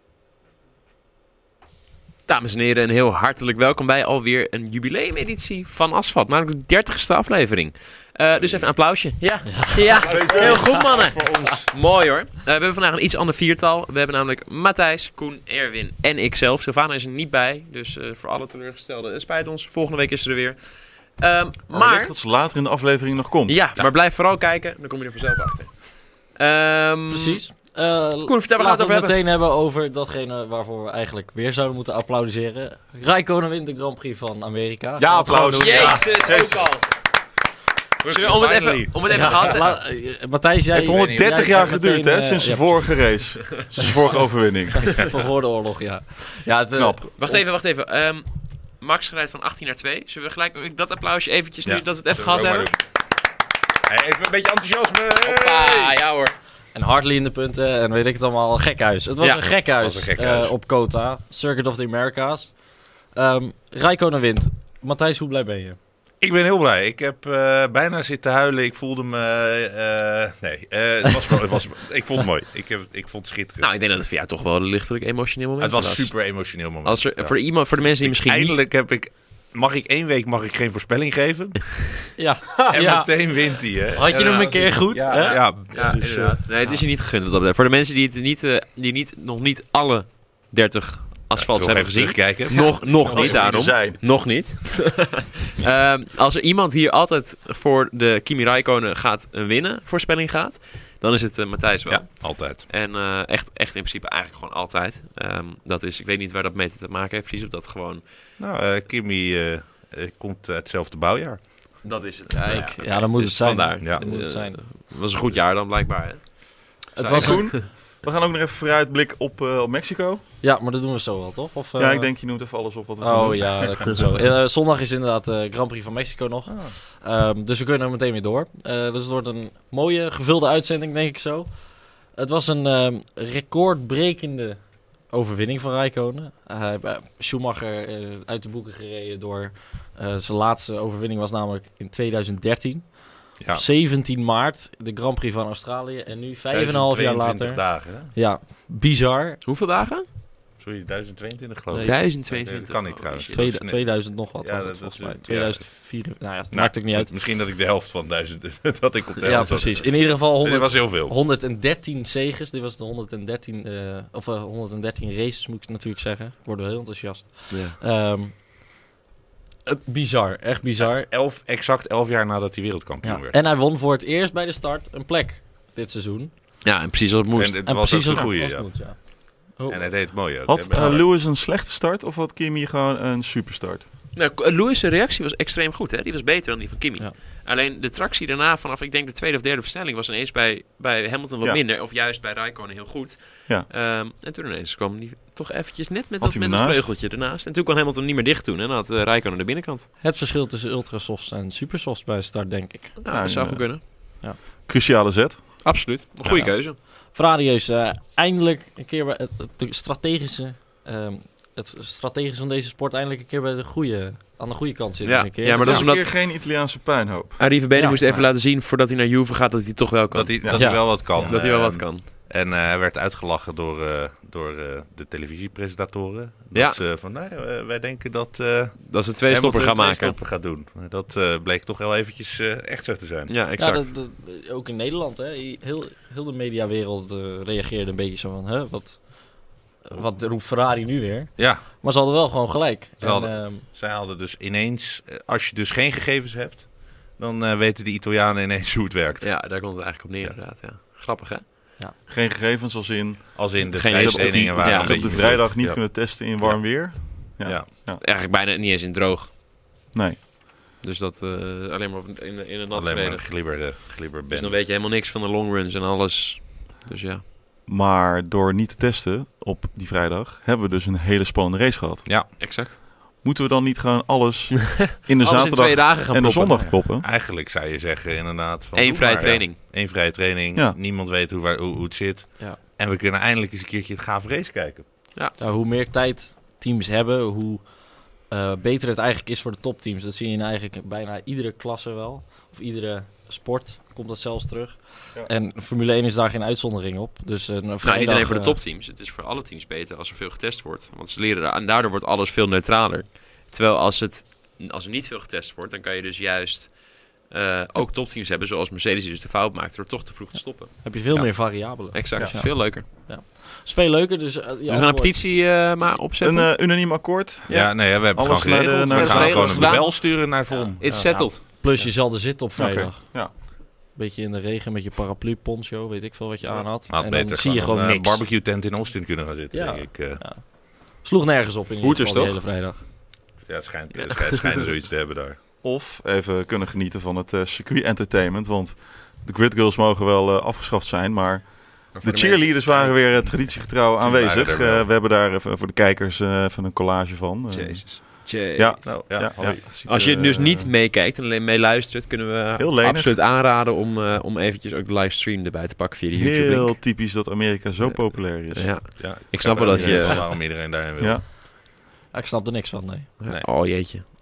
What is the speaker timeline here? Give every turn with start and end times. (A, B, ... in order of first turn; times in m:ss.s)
0:02.3-0:22.1 A
0:08.4-0:08.7 B
0:09.4-0:10.2 C
0:10.0-0:11.4 D
0:10.1-0:11.7 B
0:21.7-0:23.7 D
0:23.5-0:29.1 A
0:27.1-0:36.1 C
0:35.0-0:36.8 D
0:35.6-0:36.9 A
0:38.0-0:39.8 A
0:38.0-0:39.6 B
0:39.0-0:43.0 C
0:40.7-0:45.1 D
0:40.8-0:41.5 B
0:44.9-0:47.4 C
0:46.7-0:47.1 D
0:47.2-0:52.7 A
0:51.6-0:52.8 B
0:53.9-0:55.9 B
0:55.2-0:56.3 A
0:56.7-1:05.8 C
0:59.2-0:59.5 A
0:59.8-1:00.5 B
1:06.2-1:13.7 B
1:13.6-1:18.6 A
1:15.6-1:26.4 B
1:22.2-1:23.1 C
1:23.9-1:25.4 C
1:24.0-1:48.0 A
1:31.3-1:33.5 B
1:33.0-1:34.0 D
1:41.9-1:42.6 B
1:48.4-1:52.0 B
1:51.8-1:57.6 A
1:52.3-1:54.6 C
1:53.8-1:54.1 B
1:56.9-1:57.5 C
1:57.1-2:00.2 D
2:00.4-2:29.4 C
2:01.8-2:04.0 D
2:06.5-2:06.8 B
2:26.5-2:28.2 B
2:29.4-2:30.0 A
2:30.6-2:41.1 B
2:31.7-2:32.0 C
2:31.8-2:33.6 A
2:33.3-2:37.1 C
2:39.2-2:48.4 C
2:47.5-2:47.8 A
2:49.6-2:51.1 C
2:50.8-2:53.4 B
2:53.0-2:56.3 C
2:56.6-2:57.6 A
2:57.3-3:01.1 B
2:57.6-3:00.1 C
3:00.5-3:03.8 D
3:04.1-3:19.9 A
3:16.2-3:16.9 D
3:20.0-3:23.0 C
3:23.0-3:23.8 A
3:23.1-3:25.5 D
3:25.6-3:26.8 A
3:26.2-3:35.6 C
3:35.0-3:36.0 A
3:35.5-3:38.3 D
3:35.6-3:35.9 B
3:37.4-3:42.0 A
3:37.7-3:38.0 C
3:40.1-3:53.3 B
3:40.5-3:41.4 C
3:46.5-3:46.8 A
3:48.8-3:50.2 A
3:53.3-3:53.9 A
3:53.6-4:03.6 C
4:01.4-4:01.6 B
4:03.0-4:09.6 B
4:09.2-4:11.4 A
4:12.1-4:18.0 D
4:13.3-4:17.7 B
4:13.7-4:15.4 A
4:18.0-4:19.3 A
4:19.9-4:20.2 D
4:20.8-4:27.2 A
4:22.7-4:24.6 B
4:27.6-4:32.5 D
4:32.0-4:32.3 B
4:32.4-4:32.8 A
4:33.2-4:37.0 D
4:34.8-4:36.7 A
4:36.5-4:44.9 B
4:38.7-4:39.6 A
4:45.4-4:58.6 C
4:57.8-5:10.9 A
5:10.8-5:15.2 C
5:11.1-5:11.8 B
5:11.9-5:12.8 A
5:14.7-5:16.7 A
5:16.2-5:19.8 D
5:17.5-5:21.2 B
5:18.9-5:21.4 A
5:20.8-5:28.2 C
5:22.6-5:23.3 D
5:26.9-5:30.2 B
5:29.5-5:32.8 C
5:31.8-5:32.4 A
5:33.4-5:35.4 B
5:33.9-5:34.4 A
5:35.6-5:50.7 D
5:42.0-5:42.9 A
5:43.1-5:44.9 B
5:47.5-5:49.1 A
5:48.8-5:49.7 B
5:49.8-5:56.8 A
5:52.6-5:53.2 D
5:56.1-5:59.0 D
5:57.9-6:00.3 A
5:59.0-6:01.2 B
5:59.7-6:01.2 D
6:02.1-6:03.1 C
6:03.2-6:04.0 A